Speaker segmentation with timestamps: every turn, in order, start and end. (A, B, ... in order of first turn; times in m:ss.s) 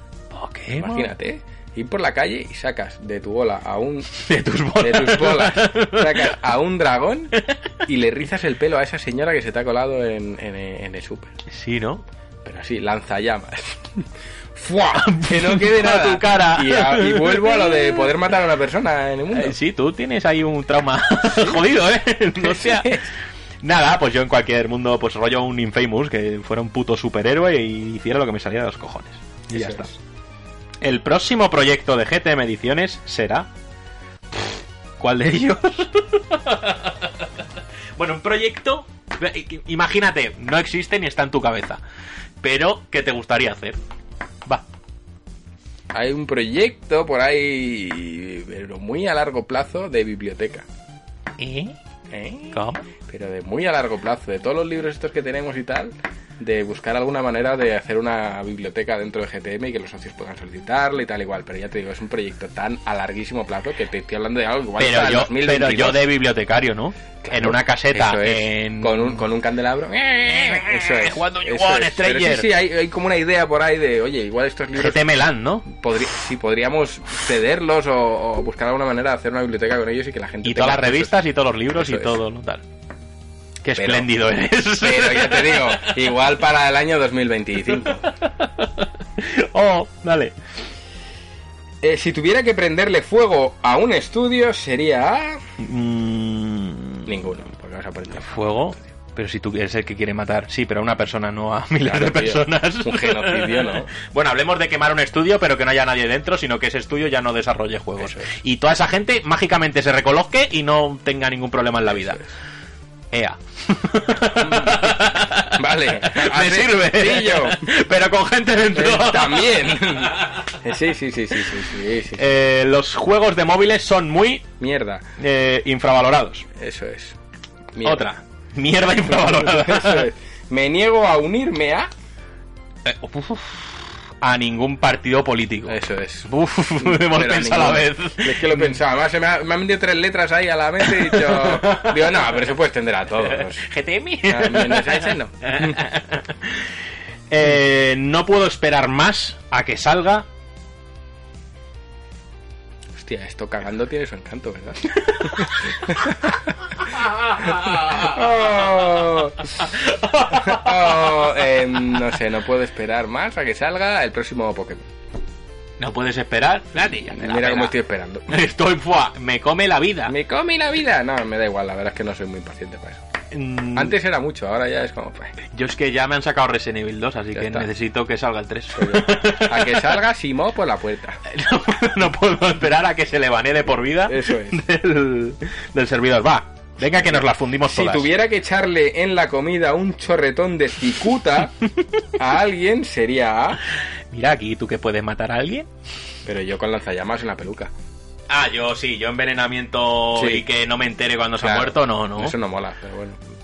0:00.3-0:01.1 A
0:00.7-0:04.2 B
0:04.1-0:06.3 A
0:04.7-0:07.3 B
0:07.8-0:11.3 B
0:11.5-0:12.0 A
0:12.4-0:14.0 B
0:14.5-0:19.6 B
0:14.9-0:18.1 A
0:19.3-0:23.0 A
0:21.2-0:21.6 B
0:22.4-0:23.1 B
0:23.6-0:30.0 A
0:29.5-0:29.9 B
0:30.8-0:33.5 A
0:35.0-0:37.2 A
0:38.0-0:41.8 A
0:42.4-0:43.8 A
0:45.9-0:50.6 B
0:51.4-0:51.8 A
0:52.1-1:06.0 B
0:52.5-0:52.9 A
1:04.8-1:09.2 A
1:07.2-1:15.0 B
1:10.3-1:12.5 A
1:14.8-1:15.6 A
1:15.6-1:21.2 B
1:20.4-1:22.6 A
1:21.7-1:22.2 B
1:23.6-1:26.0 A
1:23.8-1:24.1 B
1:24.8-1:28.1 B
1:28.0-1:30.3 A
1:31.8-1:35.4 B
1:35.6-1:37.1 A
1:37.0-1:38.4 B
1:38.2-1:52.2 A
1:41.8-1:43.9 B
1:48.0-1:48.3 B
1:51.9-1:52.2 B
1:53.1-1:59.8 A
1:54.4-1:57.6 B
1:58.7-2:02.2 B
2:02.2-2:04.4 A
2:04.6-2:05.0 B
2:05.2-2:06.4 A
2:06.6-2:07.2 B
2:07.7-2:08.0 B
2:07.8-2:10.1 A
2:09.1-2:11.9 B
2:12.8-2:18.8 A
2:15.7-2:23.6 B
2:20.8-2:22.3 A
2:23.2-2:26.7 A
2:24.3-2:25.8 B
2:27.3-2:30.2 A
2:33.0-2:36.3 B
2:35.0-2:35.5 A
2:36.8-2:38.3 A
2:37.4-2:39.6 B
2:39.6-2:41.3 A
2:40.3-2:44.8 B
2:45.8-2:47.7 A
2:47.1-2:48.3 B
2:48.3-2:50.1 A
2:50.1-2:53.0 B
2:53.3-2:53.9 A
2:53.7-2:55.3 B
2:55.4-3:00.0 A
2:57.3-2:57.7 B
2:58.7-3:01.2 B
3:01.3-3:08.1 A
3:04.0-3:04.6 B
3:07.7-3:11.5 B
3:12.2-3:13.6 B
3:14.1-3:15.7 A
3:16.2-3:17.7 B
3:18.3-3:22.3 A
3:20.1-3:20.4 B
3:21.4-3:23.2 B